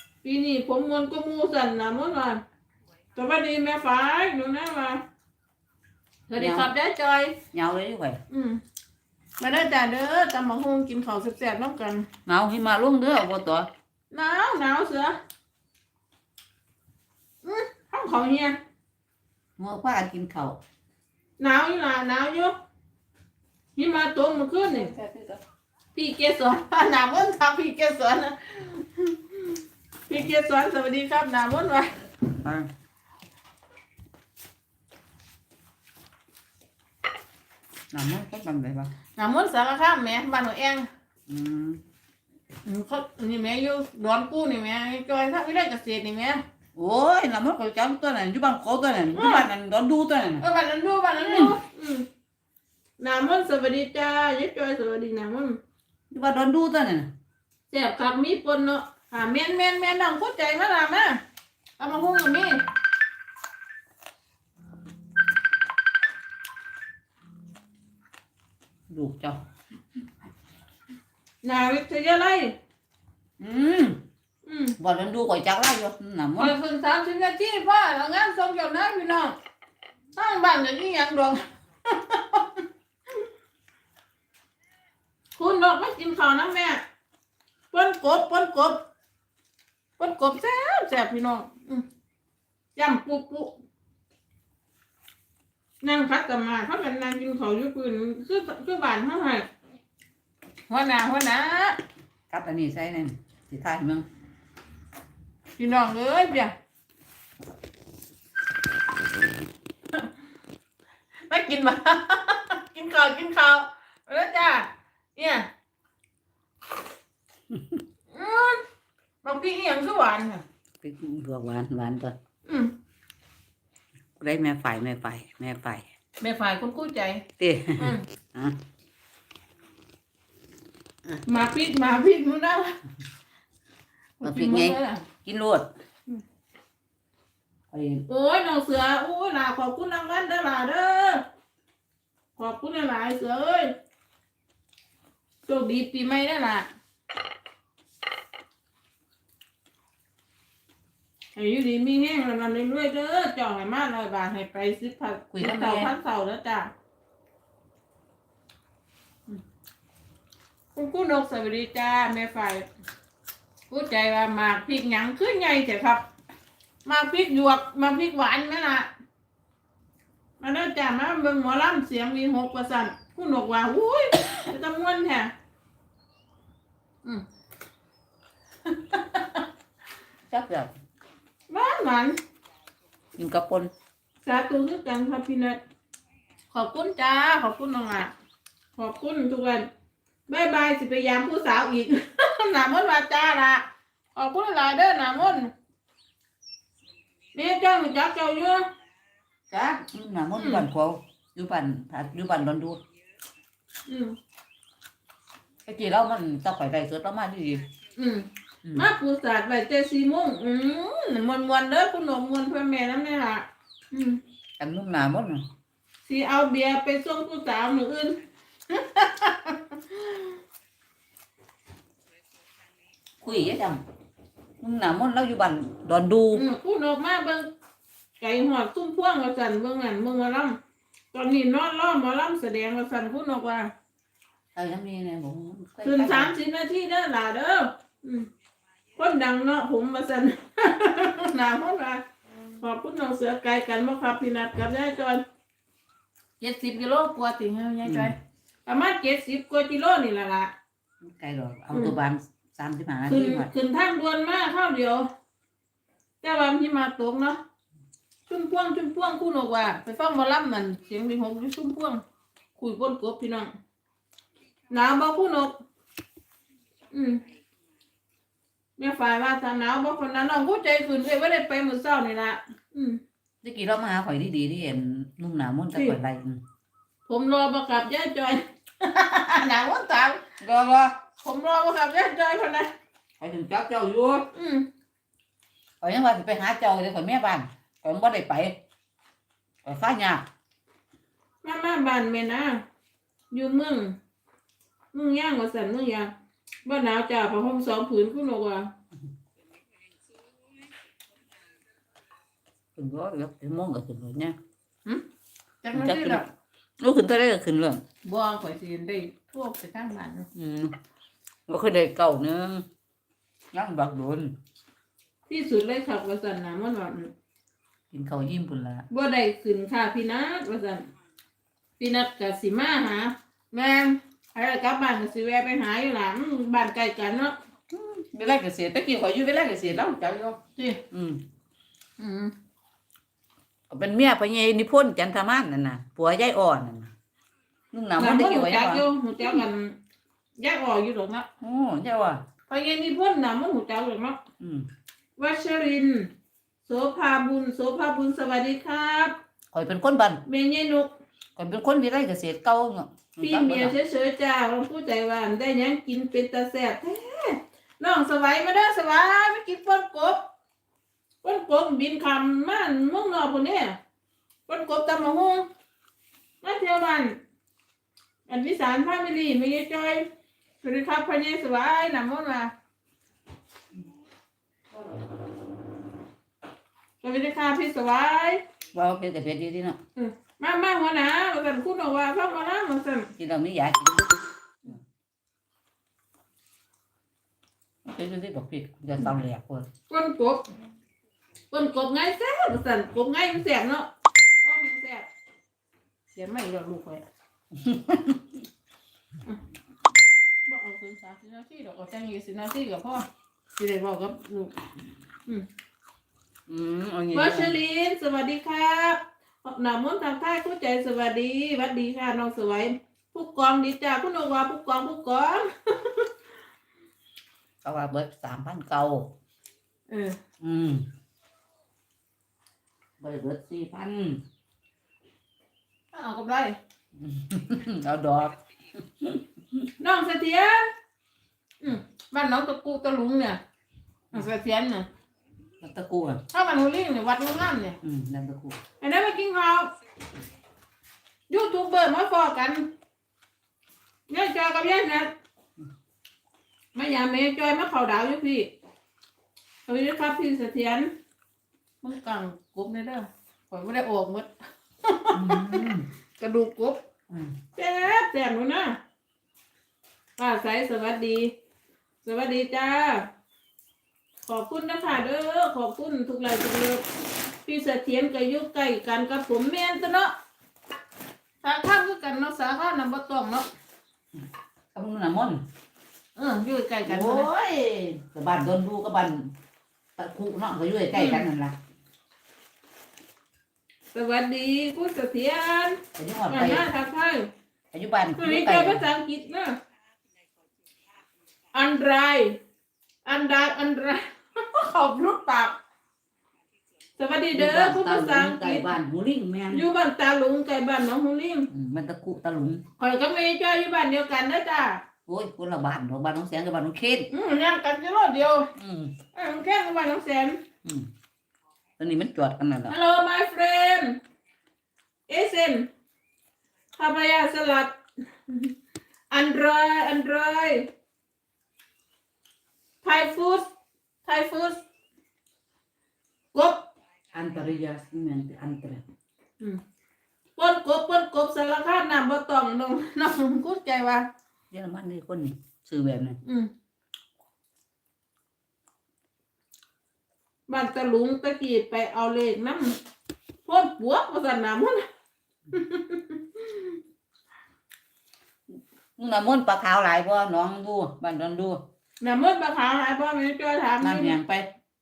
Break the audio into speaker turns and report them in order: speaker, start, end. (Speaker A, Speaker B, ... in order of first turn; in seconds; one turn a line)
Speaker A: 0.2-2.4
Speaker A: 3.1-5.0
Speaker A: 6.3-7.4
Speaker B: 6.4-6.7
Speaker B: 7.5-8.2
Speaker A: 8.3-8.6
Speaker A: 9.4-12.1
Speaker B: 12.3-13.7
Speaker A: 14.1-15.2
Speaker A: 17.4-18.6
Speaker B: 19.6-20.6
Speaker A: 21.4-22.5
Speaker A: 23.8-24.9
Speaker B: 24.6-25.4
Speaker A: 25.9-31.9
Speaker B: 32.3-32.7
Speaker B: 37.9-38.9
Speaker A: 39.1-40.9
Speaker B: 41.3-41.8
Speaker A: 42.6-46.4
Speaker B: 46.8-50.5
Speaker A: 49.1-49.5
Speaker A: 50.4-52.1
Speaker B: 51.3-51.5
Speaker A: 53.0-55.6
Speaker B: 56.1-57.1
Speaker A: 57.7-61.2
Speaker A: 61.8-62.6
Speaker B: 68.9-69.4
Speaker A: 71.4-72.5
Speaker B: 73.4-74.0
Speaker A: 74.5-74.8
Speaker B: 74.8-76.5
Speaker A: 76.4-79.3
Speaker A: 80.1-82.7
Speaker A: 85.4-86.8
Speaker A: 87.7-88.8
Speaker A: 90.0-91.8
Speaker A: 92.8-93.5
Speaker A: 95.8-99.5
Speaker A: 100.7-101.8
Speaker B: 102.3-104.0
Speaker A: 105.6-106.5
Speaker A: 111.3-115.5
Speaker B: 117.5-117.8
Speaker A: 118.1-118.6
Speaker A: 119.2-120.4
Speaker B: 120.8-122.2
Speaker A: 122.5-122.7
Speaker B: 124.2-125.9
Speaker A: 126.2-127.2
Speaker B: 127.4-128.6
Speaker A: 127.8-128.0
Speaker A: 131.2-132.8
Speaker A: 134.2-135.1
Speaker B: 134.2-135.7
Speaker B: 137.7-138.0
Speaker A: 138.1-141.2
Speaker A: 142.4-143.7
Speaker A: 145.4-146.7
Speaker A: 151.3-156.7
Speaker B: 155.3-155.9
Speaker A: 160.7-162.7
Speaker A: 163.7-166.0
Speaker A: 166.8-168.9
Speaker A: 170.4-175.3
Speaker A: 178.7-179.4
Speaker B: 180.3-180.7
Speaker A: 181.5-182.2
Speaker B: 183.2-183.7
Speaker A: 184.2-185.6
Speaker A: 186.5-188.1
Speaker A: 188.8-189.7
Speaker A: 190.3-193.6
Speaker A: 194.1-195.5
Speaker A: 197.3-198.7
Speaker B: 199.5-202.8
Speaker A: 200.4-200.6
Speaker A: 203.9-204.2
Speaker B: 205.7-207.7
Speaker A: 207.9-214.2
Speaker B: 214.6-215.4
Speaker A: 216.0-220.4
Speaker B: 223.2-223.8
Speaker B: 224.6-226.4
Speaker A: 226.3-227.5
Speaker A: 228.2-230.6
Speaker A: 231.1-233.7
Speaker B: 234.5-236.3
Speaker A: 235.8-238.3
Speaker A: 238.9-242.0
Speaker A: 242.6-245.2
Speaker A: 246.4-248.1
Speaker B: 247.8-248.1
Speaker A: 248.7-250.5
Speaker B: 251.0-253.5
Speaker A: 253.1-255.1
Speaker A: 256.2-257.4
Speaker A: 258.3-262.0
Speaker A: 262.6-263.5
Speaker A: 264.7-265.5
Speaker A: 266.9-267.2
Speaker A: 268.8-273.0
Speaker B: 273.4-276.4
Speaker A: 277.1-280.2
Speaker B: 280.4-281.0
Speaker A: 281.2-282.7
Speaker B: 283.2-284.3
Speaker A: 284.3-284.7
Speaker B: 285.8-288.6
Speaker B: 289.6-290.2
Speaker A: 291.4-292.6
Speaker A: 293.3-294.0
Speaker A: 294.9-296.1
Speaker A: 296.6-298.7
Speaker B: 302.8-304.4
Speaker A: 305.6-306.2
Speaker B: 305.7-306.2
Speaker B: 306.8-307.8
Speaker A: 308.0-310.3
Speaker B: 310.3-310.8
Speaker B: 311.5-312.6
Speaker B: 313.5-314.3
Speaker A: 315.3-317.1
Speaker B: 317.9-318.8
Speaker A: 318.9-320.9
Speaker A: 321.8-327.4
Speaker B: 327.7-330.4
Speaker A: 330.6-330.8
Speaker B: 330.9-331.2
Speaker A: 332.0-332.3
Speaker B: 333.7-336.9
Speaker B: 337.7-338.9
Speaker A: 338.0-339.8
Speaker A: 340.4-341.3
Speaker B: 341.4-342.2
Speaker A: 342.5-344.2
Speaker B: 344.4-344.7
Speaker A: 345.2-346.1
Speaker A: 346.6-349.1
Speaker B: 349.5-350.2
Speaker A: 350.2-350.9
Speaker B: 351.4-353.7
Speaker A: 353.2-360.2
Speaker A: 361.2-363.8
Speaker A: 364.5-365.5
Speaker A: 366.4-367.2
Speaker A: 368.3-370.1
Speaker A: 370.6-372.5
Speaker A: 377.0-378.4
Speaker B: 378.7-379.8
Speaker A: 379.9-383.1
Speaker B: 383.2-384.2
Speaker B: 387.8-389.6
Speaker A: 389.9-390.5
Speaker A: 391.5-395.1
Speaker A: 396.1-397.0
Speaker B: 397.5-398.2
Speaker A: 400.4-404.6
Speaker B: 406.5-407.5
Speaker A: 407.1-416.1
Speaker B: 417.6-419.1
Speaker A: 419.9-420.2
Speaker B: 420.4-420.9
Speaker B: 423.0-424.2
Speaker A: 425.9-426.6
Speaker B: 427.0-428.4
Speaker B: 429.0-429.6
Speaker A: 429.8-430.7
Speaker A: 431.6-433.4
Speaker A: 434.1-434.9
Speaker B: 435.6-436.2
Speaker A: 436.3-437.8
Speaker B: 437.8-438.6
Speaker A: 438.8-439.7
Speaker A: 441.3-442.7
Speaker A: 444.1-445.1
Speaker A: 446.7-448.5
Speaker A: 449.7-450.9
Speaker A: 451.8-454.3
Speaker A: 454.8-455.6
Speaker B: 455.1-455.9
Speaker A: 456.2-456.8
Speaker A: 457.6-458.8
Speaker A: 460.2-461.3
Speaker A: 462.0-463.1
Speaker A: 464.3-466.8
Speaker A: 467.4-470.1
Speaker A: 471.4-473.5
Speaker B: 474.7-475.4
Speaker A: 476.1-477.3
Speaker B: 476.9-479.3
Speaker B: 480.0-481.6
Speaker A: 480.9-481.2
Speaker A: 483.9-487.3
Speaker B: 485.9-486.6
Speaker B: 487.7-488.8
Speaker A: 488.2-489.6
Speaker A: 491.5-492.4
Speaker A: 493.0-495.6
Speaker A: 497.0-498.8
Speaker B: 497.3-499.6
Speaker A: 499.5-501.5
Speaker B: 501.5-502.6
Speaker A: 502.8-504.8
Speaker B: 505.1-507.1
Speaker A: 507.1-508.5
Speaker B: 508.6-508.9
Speaker A: 509.1-510.4
Speaker B: 510.6-510.9
Speaker B: 511.8-512.7
Speaker A: 512.7-514.0
Speaker A: 515.1-515.7
Speaker A: 516.8-517.8
Speaker A: 518.3-518.5
Speaker A: 519.1-520.7
Speaker A: 522.8-523.5
Speaker A: 524.0-524.6
Speaker A: 526.3-526.6
Speaker B: 527.1-528.8
Speaker A: 530.4-534.0
Speaker B: 534.5-536.2
Speaker A: 536.2-536.5
Speaker A: 540.5-542.8
Speaker A: 543.5-544.9
Speaker A: 545.5-546.8
Speaker B: 549.0-551.6
Speaker A: 552.0-554.2
Speaker B: 553.8-554.5